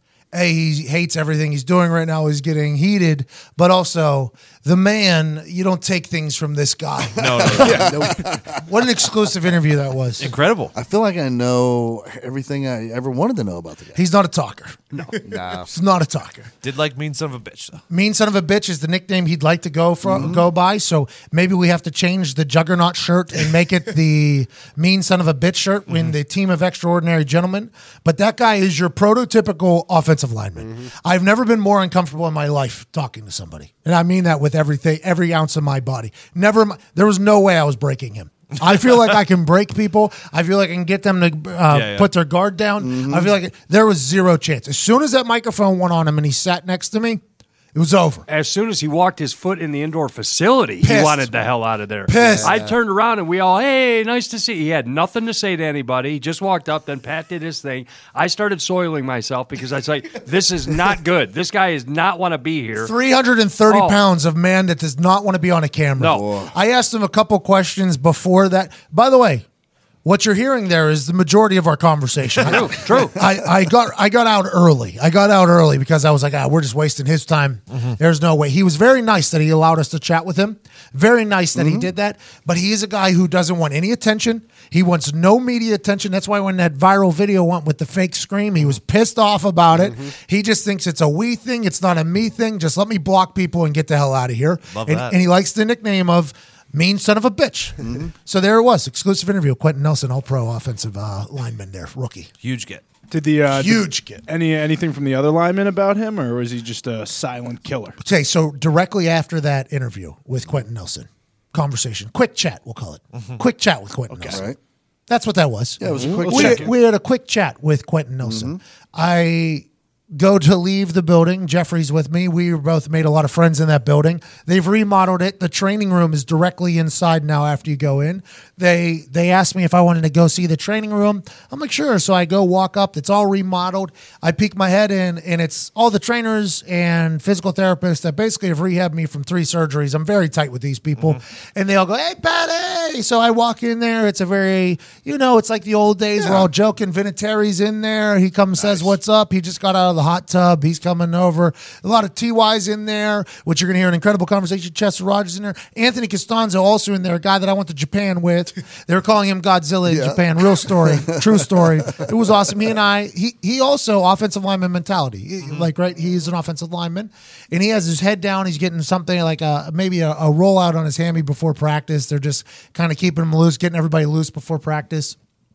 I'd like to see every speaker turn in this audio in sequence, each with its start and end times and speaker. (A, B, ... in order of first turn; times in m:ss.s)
0:00.3-0:10.3 A
0:07.2-0:08.2 B
0:07.2-0:08.4 C
0:10.2-0:10.7 B
0:10.7-0:14.0 C
0:14.0-0:14.8 A
0:15.2-0:15.7 C
0:15.7-0:16.5 A
0:16.6-0:17.8 B
0:17.9-0:47.2 A
0:20.0-0:20.5 C
0:41.7-0:42.1 B
0:42.8-0:43.4 C
0:47.8-0:48.2 A
0:48.3-1:02.9 D
0:50.8-0:51.4 A
0:52.1-0:52.6 A
0:52.2-0:52.5 C
1:02.8-1:09.4 A
1:03.7-1:04.0 D
1:06.0-1:06.2 D
1:06.0-1:06.5 C
1:10.0-1:42.3 A
1:12.4-1:13.2 D
1:21.6-1:21.8 C
1:34.7-1:35.2 B
1:37.8-1:38.1 C
1:42.4-1:42.8 B
1:43.1-1:48.0 E
1:43.5-1:44.2 A
1:48.0-1:54.4 A
1:54.1-1:54.5 E
1:54.3-1:54.6 C
1:55.1-2:55.2 A
1:55.8-1:56.7 C
1:56.0-1:56.7 E
1:58.2-1:58.6 C
2:39.9-2:42.0 C